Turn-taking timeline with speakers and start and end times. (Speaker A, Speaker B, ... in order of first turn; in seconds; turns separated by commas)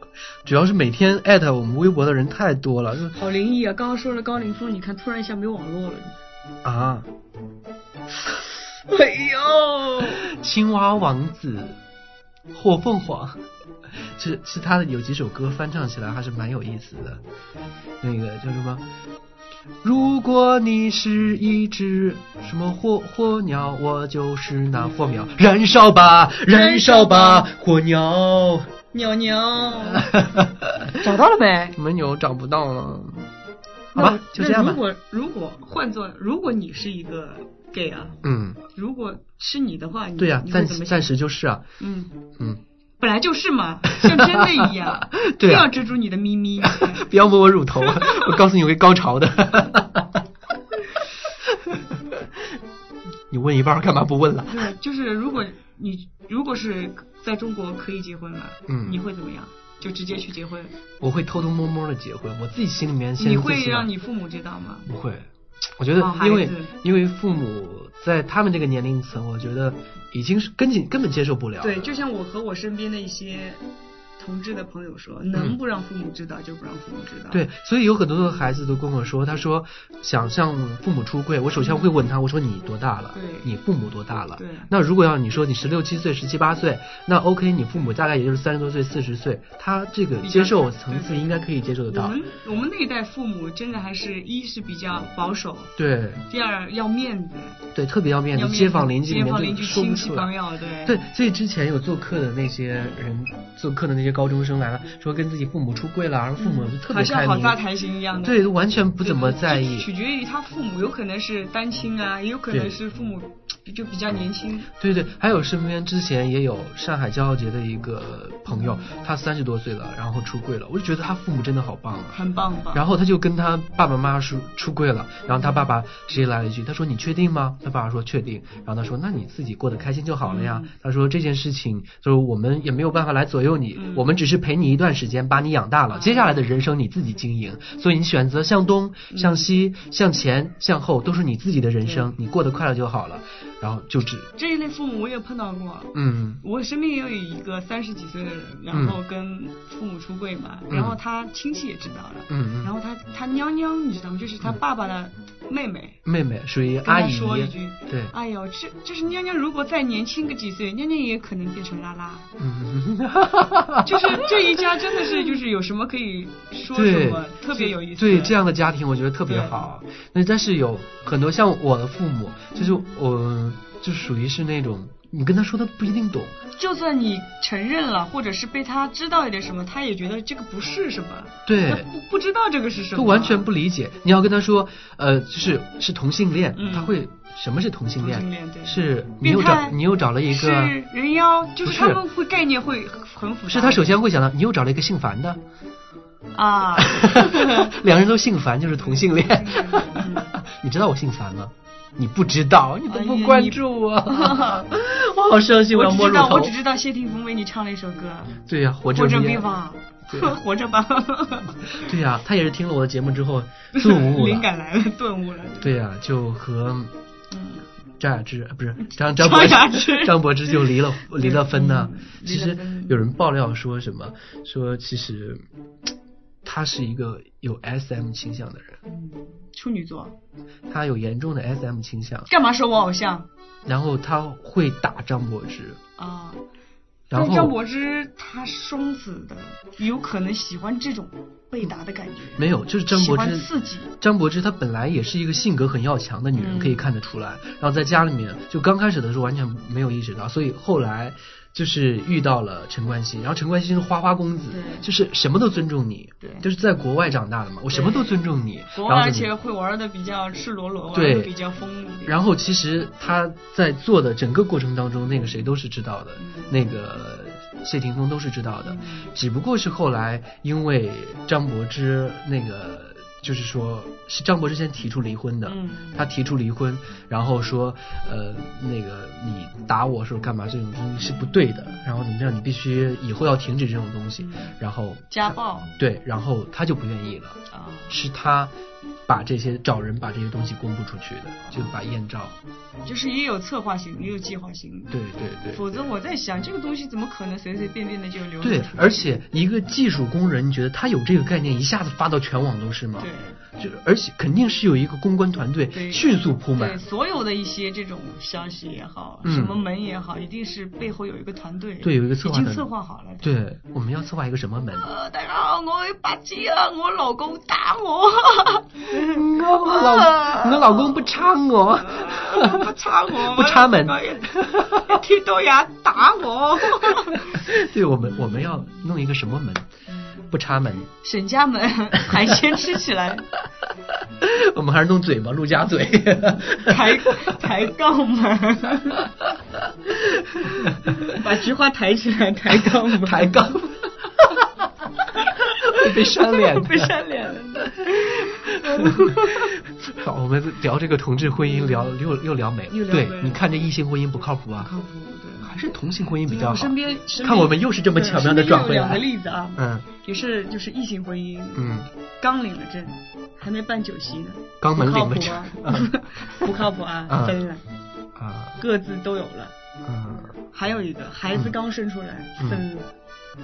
Speaker A: 0.5-3.2, Speaker B: 3.1-6.2, Speaker A: 6.6-7.1, Speaker B: 8.8-10.2, Speaker A: 10.3-11.8, Speaker A: 12.5-13.4, Speaker A: 14.2-17.2, Speaker A: 18.0-18.8, Speaker A: 19.8-28.7, Speaker B: 24.8-25.4, Speaker B: 26.5-27.5, Speaker B: 28.9-30.1, Speaker A: 29.9-31.0, Speaker B: 31.0-31.8, Speaker A: 31.8-33.3, Speaker B: 34.0-41.1, Speaker A: 34.0-34.8, Speaker A: 38.2-38.6, Speaker A: 40.2-41.6, Speaker B: 41.8-42.2, Speaker B: 43.0-47.0, Speaker A: 43.9-45.7, Speaker A: 46.7-50.2, Speaker B: 47.8-48.4, Speaker A: 51.5-51.8, Speaker A: 53.3-54.6, Speaker B: 54.5-60.7, Speaker A: 58.7-59.0, Speaker A: 61.0-63.9, Speaker B: 63.2-64.9, Speaker A: 64.9-65.3, Speaker A: 65.8-71.9, Speaker B: 66.0-66.7, Speaker B: 71.6-73.6, Speaker B: 74.2-77.5, Speaker A: 77.3-92.2, Speaker B: 81.6-81.9, Speaker B: 83.1-83.5, Speaker B: 84.4-84.7, Speaker B: 90.2-91.4, Speaker B: 91.9-95.8, Speaker A: 95.8-96.2, Speaker B: 96.3-97.6, Speaker A: 97.7-100.3, Speaker B: 98.3-101.0, Speaker A: 100.8-107.6, Speaker B: 106.4-108.5, Speaker A: 108.2-109.9, Speaker B: 109.0-114.7, Speaker A: 112.5-112.8, Speaker A: 114.8-122.2, Speaker B: 118.5-118.9, Speaker B: 122.1-122.8, Speaker A: 122.7-144.3, Speaker B: 125.3-125.7, Speaker B: 130.2-130.7, Speaker B: 133.8-134.1, Speaker B: 135.9-136.4, Speaker B: 139.1-139.5, Speaker B: 144.3-156.0, Speaker A: 145.9-146.4, Speaker A: 148.7-149.0, Speaker A: 150.7-151.0, Speaker A: 152.3-152.7, Speaker A: 156.1-158.1, Speaker B: 156.8-162.3, Speaker A: 162.4-164.3, Speaker B: 163.8-168.4, Speaker A: 166.7-176.3, Speaker B: 169.3-169.7, Speaker B: 172.6-172.9, Speaker B: 176.6-183.5, Speaker A: 181.5-181.9, Speaker A: 182.9-190.8, Speaker B: 186.5-187.0, Speaker B: 188.0-194.0, Speaker A: 191.6-192.0, Speaker A: 193.5-195.4, Speaker B: 196.3-197.7, Speaker A: 196.8-206.6, Speaker B: 198.8-200.3, Speaker B: 202.9-204.6, Speaker B: 205.7-208.4, Speaker A: 208.4-209.5, Speaker B: 208.9-211.6, Speaker A: 210.1-210.3, Speaker A: 211.8-214.5, Speaker B: 213.8-215.8, Speaker A: 215.6-216.9, Speaker B: 217.3-217.7, Speaker A: 218.0-225.4, Speaker B: 218.9-223.0, Speaker A: 226.4-228.8, Speaker B: 228.9-230.2, Speaker A: 230.7-232.3, Speaker B: 232.3-233.3, Speaker A: 233.7-235.8, Speaker B: 236.0-236.4, Speaker A: 237.1-237.6, Speaker B: 237.1-243.9, Speaker A: 242.4-259.3, Speaker B: 246.3-246.9, Speaker B: 254.5-254.9, Speaker B: 257.7-258.2, Speaker B: 258.7-262.2, Speaker A: 260.9-261.3, Speaker A: 262.1-288.5, Speaker B: 266.2-266.6, Speaker B: 268.6-269.1, Speaker B: 275.5-276.0, Speaker B: 281.0-281.7, Speaker B: 284.2-284.6, Speaker B: 285.1-285.7, Speaker B: 287.5-287.9, Speaker A: 289.1-292.3, Speaker B: 291.4-291.8, Speaker B: 292.8-295.0, Speaker A: 294.9-295.8, Speaker B: 295.5-299.2, Speaker A: 298.4-306.8, Speaker B: 303.0-303.4, Speaker B: 305.7-313.3, Speaker A: 309.2-309.6, Speaker A: 311.8-312.7, Speaker A: 313.2-314.9, Speaker B: 314.8-321.1, Speaker A: 319.0-322.7, Speaker B: 321.8-327.4, Speaker A: 323.3-324.8, Speaker A: 327.3-329.7, Speaker B: 328.1-328.8, Speaker B: 329.9-330.3, Speaker A: 330.3-330.9, Speaker B: 331.0-333.3, Speaker A: 334.2-337.4, Speaker B: 336.6-339.1, Speaker A: 340.0-341.1, Speaker B: 341.0-343.4, Speaker A: 342.6-344.4, Speaker B: 345.3-349.5, Speaker A: 345.6-346.9, Speaker A: 348.5-354.7, Speaker B: 351.4-352.0, Speaker B: 352.7-353.4, Speaker B: 354.6-355.6, Speaker A: 355.4-359.1, Speaker B: 356.2-361.7, Speaker A: 359.6-359.9, Speaker A: 361.6-361.9, Speaker B: 362.2-367.6, Speaker A: 364.6-365.9, Speaker A: 367.1-367.4, Speaker A: 368.2-368.6, Speaker B: 368.6-369.5, Speaker A: 369.8-370.3, Speaker B: 370.5-372.9, Speaker A: 372.4-372.6